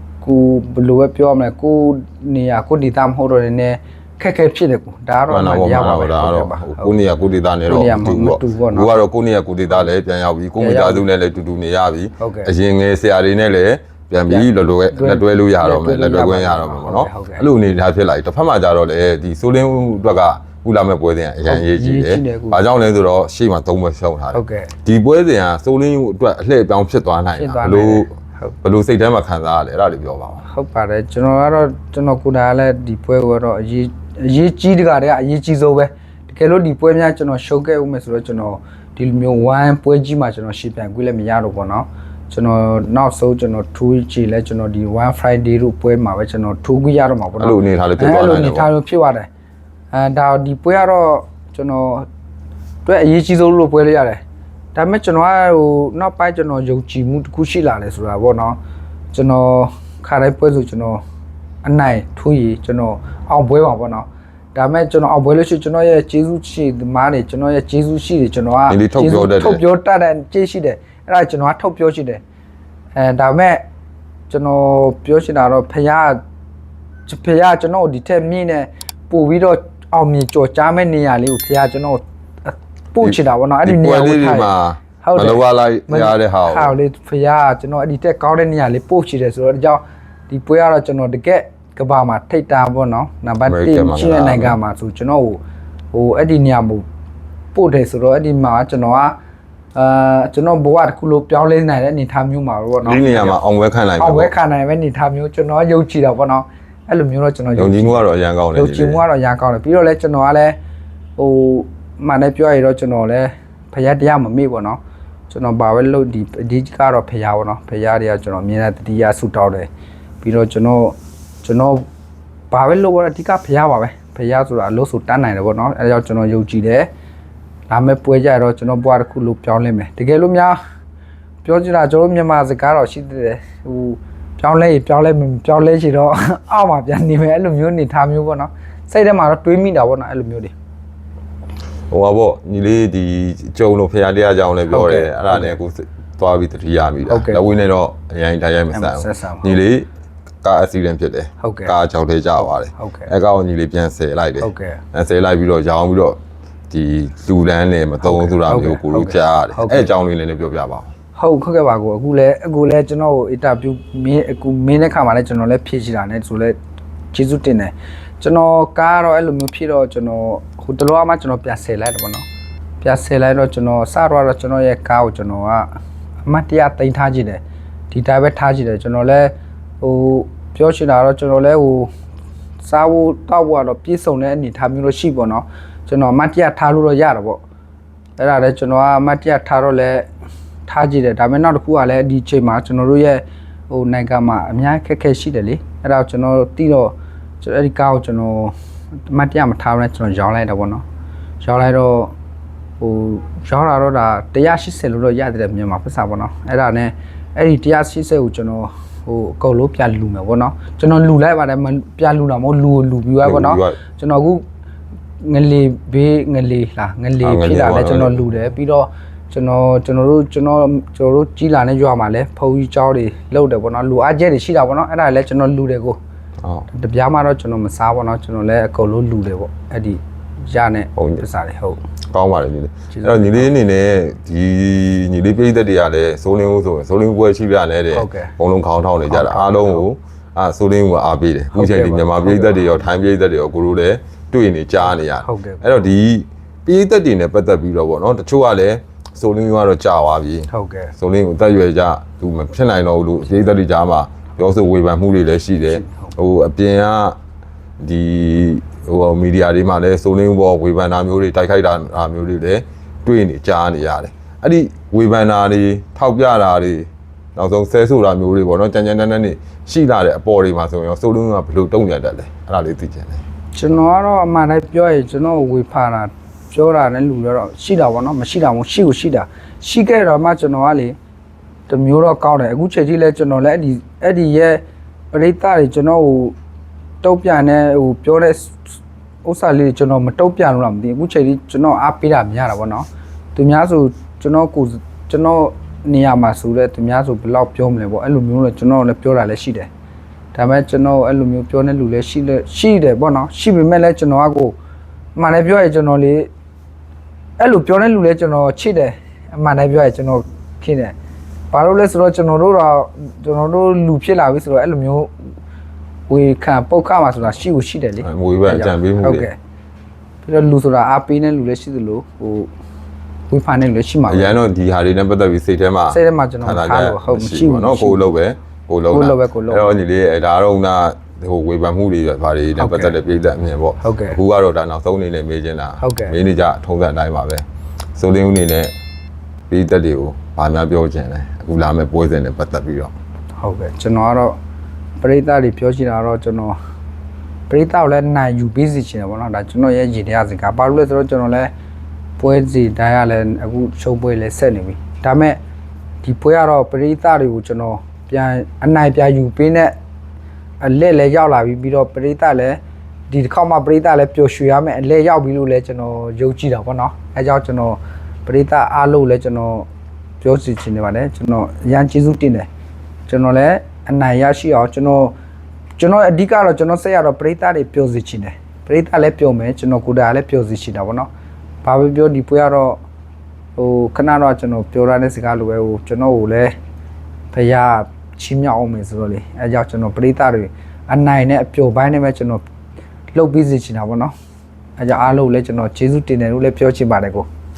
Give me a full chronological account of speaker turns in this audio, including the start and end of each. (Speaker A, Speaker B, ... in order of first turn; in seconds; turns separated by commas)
Speaker A: 0.2-6.9, Speaker B: 5.3-28.1, Speaker A: 7.7-9.0, Speaker A: 10.6-11.1, Speaker A: 12.2-12.5, Speaker A: 14.3-17.5, Speaker A: 21.5-22.6, Speaker A: 24.3-24.7, Speaker A: 27.4-28.5, Speaker B: 28.6-30.4, Speaker A: 30.4-49.3, Speaker B: 47.4-48.7, Speaker A: 49.9-52.1, Speaker A: 52.9-54.2, Speaker A: 54.8-58.6, Speaker A: 59.1-61.0, Speaker A: 61.6-72.2, Speaker B: 68.7-69.6, Speaker A: 73.0-73.6, Speaker A: 74.3-76.2, Speaker A: 77.1-84.5, Speaker B: 83.0-86.8, Speaker A: 85.0-95.4, Speaker B: 93.5-94.6, Speaker A: 95.9-96.8, Speaker A: 97.5-99.2, Speaker A: 99.8-103.4, Speaker B: 102.8-104.3, Speaker A: 104.0-110.6, Speaker B: 107.6-109.0, Speaker A: 111.2-119.7, Speaker A: 120.2-121.9, Speaker A: 122.5-126.9, Speaker A: 127.7-130.6, Speaker A: 131.4-140.5, Speaker B: 141.9-149.9, Speaker A: 144.7-145.6, Speaker A: 147.1-147.4, Speaker A: 148.7-149.5, Speaker B: 150.4-156.2, Speaker A: 151.4-151.7, Speaker A: 152.7-153.1, Speaker A: 154.4-154.8, Speaker B: 156.7-160.9, Speaker A: 158.0-159.9, Speaker A: 161.2-166.6, Speaker A: 167.1-172.2, Speaker A: 172.8-175.7, Speaker A: 176.2-181.9, Speaker A: 182.6-187.4, Speaker A: 188.2-190.1, Speaker A: 190.7-198.5, Speaker A: 199.1-200.8, Speaker A: 201.4-202.2, Speaker A: 202.8-214.4, Speaker B: 213.2-213.8, Speaker A: 215.2-226.0, Speaker B: 217.2-218.3, Speaker A: 226.7-231.8, Speaker B: 231.0-231.2, Speaker B: 232.1-257.2, Speaker A: 232.9-233.5, Speaker A: 237.9-238.3, Speaker A: 239.1-239.8, Speaker A: 241.5-242.6, Speaker A: 244.8-245.8, Speaker A: 250.5-250.9, Speaker A: 255.7-256.1, Speaker B: 257.8-273.2, Speaker A: 273.5-281.0, Speaker A: 281.7-286.4, Speaker A: 287.0-288.6, Speaker A: 289.2-299.7, Speaker A: 300.3-304.6, Speaker A: 305.2-306.3, Speaker A: 307.4-310.9, Speaker A: 311.5-315.1, Speaker A: 316.1-319.4, Speaker B: 318.0-319.3, Speaker A: 320.2-322.5, Speaker A: 323.3-324.4, Speaker B: 324.1-337.4, Speaker A: 325.9-328.0, Speaker A: 328.9-329.7, Speaker A: 332.6-333.0, Speaker A: 333.8-334.2, Speaker A: 335.8-336.1, Speaker B: 338.0-338.7, Speaker B: 339.5-342.9, Speaker A: 343.4-344.4, Speaker A: 345.0-346.6, Speaker A: 347.5-351.5, Speaker A: 352.2-355.4, Speaker A: 356.0-359.8, Speaker A: 360.6-369.7, Speaker A: 370.2-372.5, Speaker A: 373.1-375.2, Speaker A: 375.8-381.1, Speaker A: 381.6-382.8, Speaker A: 383.6-386.6, Speaker A: 387.3-392.4, Speaker A: 393.1-394.1, Speaker A: 394.8-397.3